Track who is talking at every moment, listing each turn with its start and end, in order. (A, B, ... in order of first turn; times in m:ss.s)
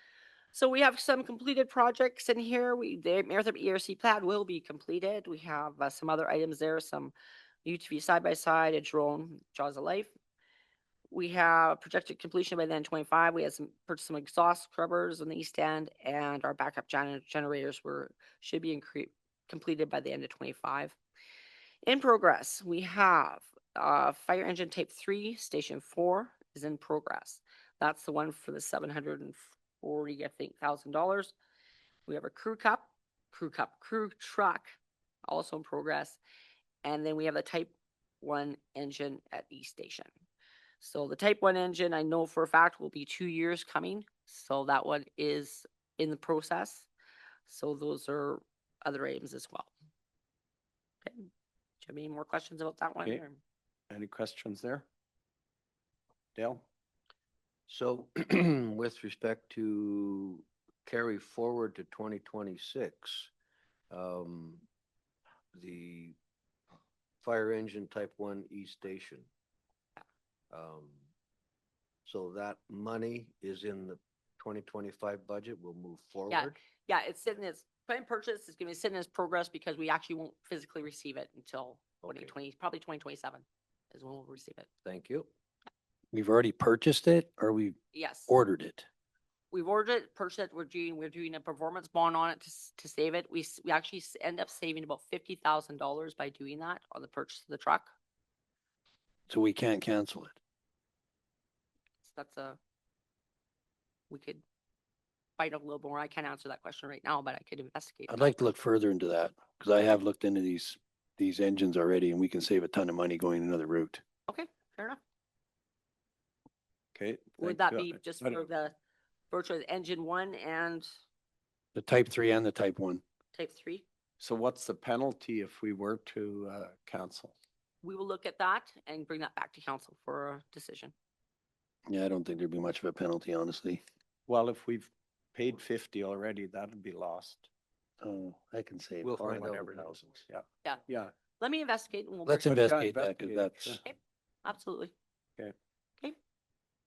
0:00.5-0:07.1 A
0:07.6-0:10.1 A
0:11.1-0:21.0 A
0:21.9-0:31.3 A
0:32.1-0:36.2 A
0:36.8-0:40.1 A
0:40.8-0:46.9 A
0:47.5-0:49.7 A
0:51.8-0:53.4 A
0:53.9-0:54.9 B
0:56.4-0:56.6 B
0:57.7-1:03.3 C
1:03.9-1:04.6 C
1:05.5-1:06.2 C
1:07.2-1:09.3 C
1:10.5-1:11.0 C
1:12.0-1:16.6 C
1:16.3-1:24.7 A
1:22.0-1:22.3 C
1:24.8-1:25.3 C
1:26.1-1:28.9 D
1:27.9-1:28.3 A
1:29.5-1:37.9 A
1:39.3-1:40.4 D
1:42.0-1:42.6 A
1:44.1-1:44.4 A
1:45.4-1:48.3 A
1:48.1-1:54.0 D
1:54.3-1:55.0 A
1:57.0-1:58.4 B
1:57.4-1:58.8 A
1:59.3-2:00.9 A
2:01.8-2:03.0 D
2:03.3-2:03.8 A
2:04.2-2:07.4 B
2:07.8-2:10.9 A
2:11.9-2:13.8 D
2:14.3-2:17.5 B
2:18.0-2:19.8 D
2:19.0-2:21.1 B
2:21.4-2:22.6 A
2:22.3-2:23.8 D
2:22.4-2:23.8 B
2:23.8-2:24.9 A